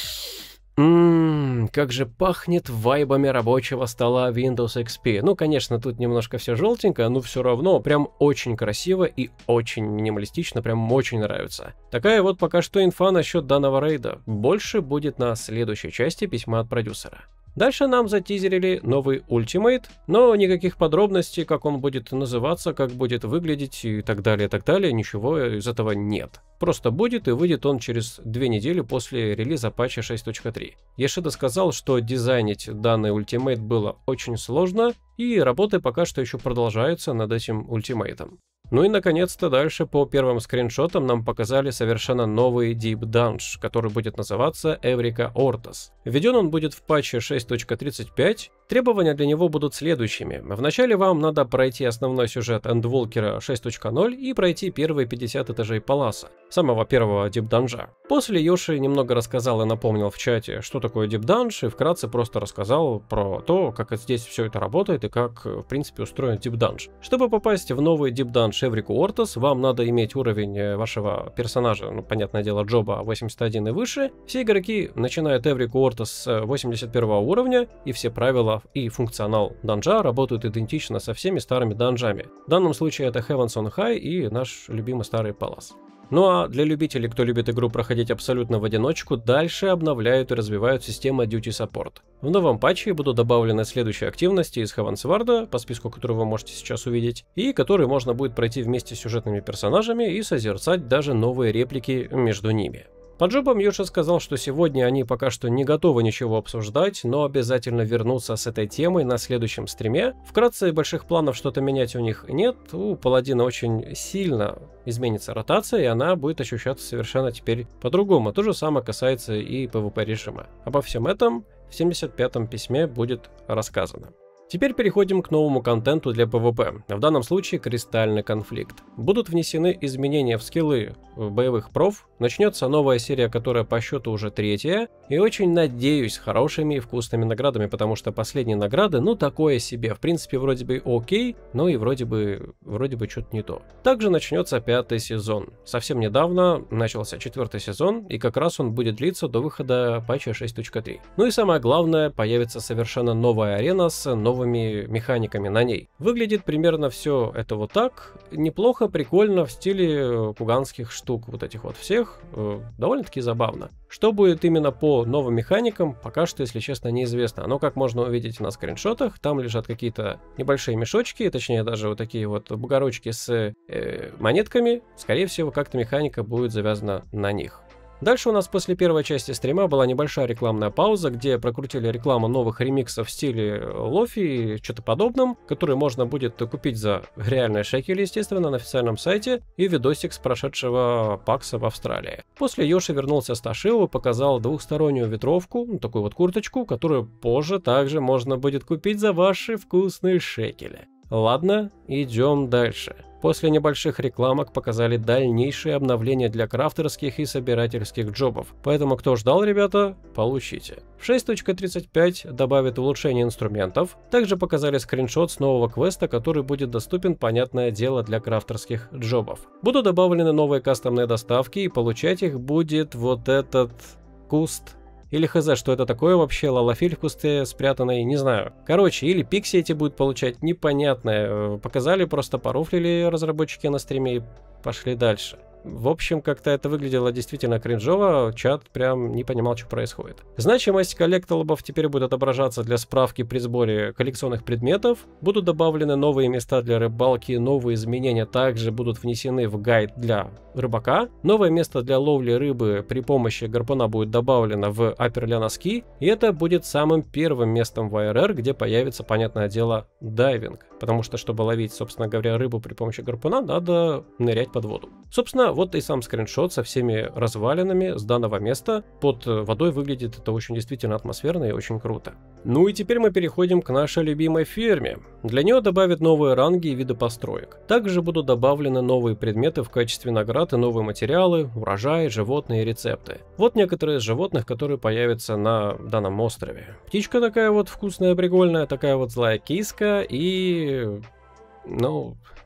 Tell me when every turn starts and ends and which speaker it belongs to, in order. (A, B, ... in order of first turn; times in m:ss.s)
0:00.8-4:51.0 A
4:51.6-4:52.2 A